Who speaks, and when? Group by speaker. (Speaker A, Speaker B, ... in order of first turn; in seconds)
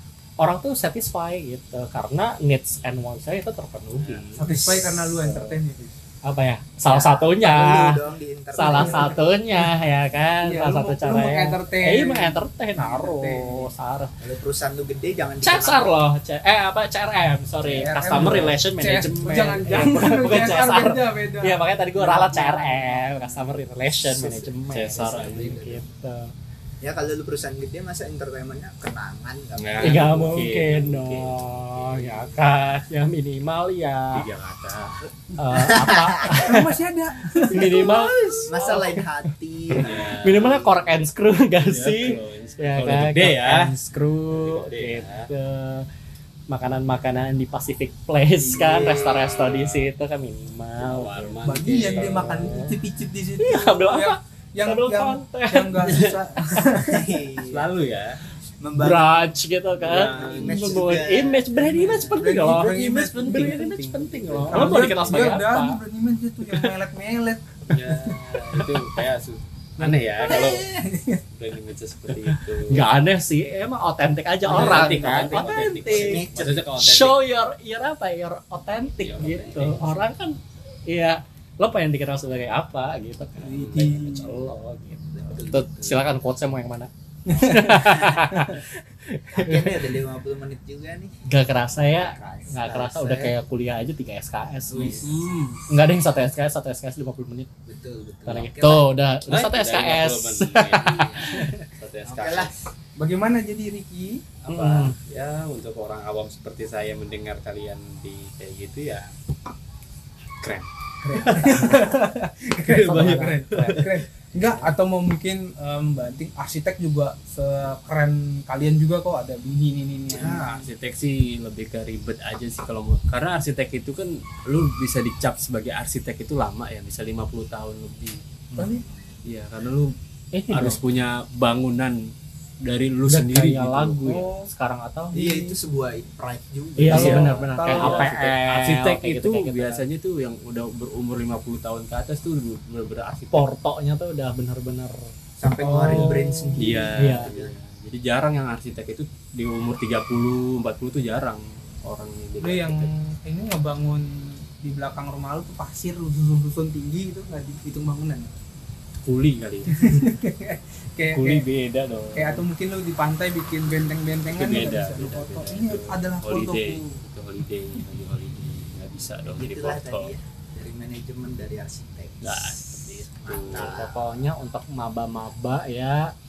Speaker A: 0.4-5.5, 6.2-8.0, 8.5-14.1, 15.4-26.3, 29.8-34.3, 35.4-36.7, 37.4-39.0, 39.7-45.9, 46.5-52.8, 53.4-56.1, 58.8-65.8, 72.3-76.2, 76.8-90.0, 91.2-97.5, 98.3-101.6, 104.5-105.0, 130.3-130.8, 133.1-135.2, 136.8-139.8, 143.3-145.1, 145.6-147.3, 172.6-172.9, 173.4-176.1
Speaker B: 4.0-4.5, 24.7-25.6, 29.6-32.3, 34.1-35.1, 39.7-40.5, 41.6-43.7, 44.3-45.3, 48.5-49.8, 50.8-52.6, 55.8-56.1, 57.4-58.1, 59.8-60.9, 62.3-65.5, 67.7-70.8, 71.3-72.9, 74.5-77.2, 79.0-79.8, 94.8-95.6, 99.3-102.6, 104.5-109.1, 110.4-111.9, 112.5-114.7, 120.1-128.6, 129.2-129.9, 130.5-134.1, 136.8-143.5, 146.6-152.9, 159.0-160.2, 161.1-162.5, 164.3-170.1, 172.2-173.8
Speaker C: 4.4-6.0, 8.6-9.7, 10.4-13.7, 17.6-23.1, 36.4-38.5, 51.4-57.3, 61.6-63.6, 64.5-68.2, 69.8-71.2, 74.5-74.9, 83.4-84.3, 87.3-88.5, 103.0-104.2, 111.0-120.7, 128.6-128.8, 134.0-134.5, 135.1-135.6, 136.9-138.1, 145.6-146.3, 152.4-158.3, 159.7-161.4, 162.1-166.9
Speaker D: 6.8-9.2, 14.2-15.9, 24.1-25.8, 26.8-30.2, 35.5-36.6, 37.6-41.0, 48.5-49.5, 56.8-59.3, 59.8-62.0, 70.2-70.9, 74.5-76.7, 85.1-86.2, 87.7-88.3, 89.3-91.2, 91.7-93.3, 94.7-95.4, 97.7-98.9, 100.8-101.4, 102.0-102.5, 120.1-120.5, 128.6-129.1, 135.1-137.4, 145.4-147.5, 169.3-174.1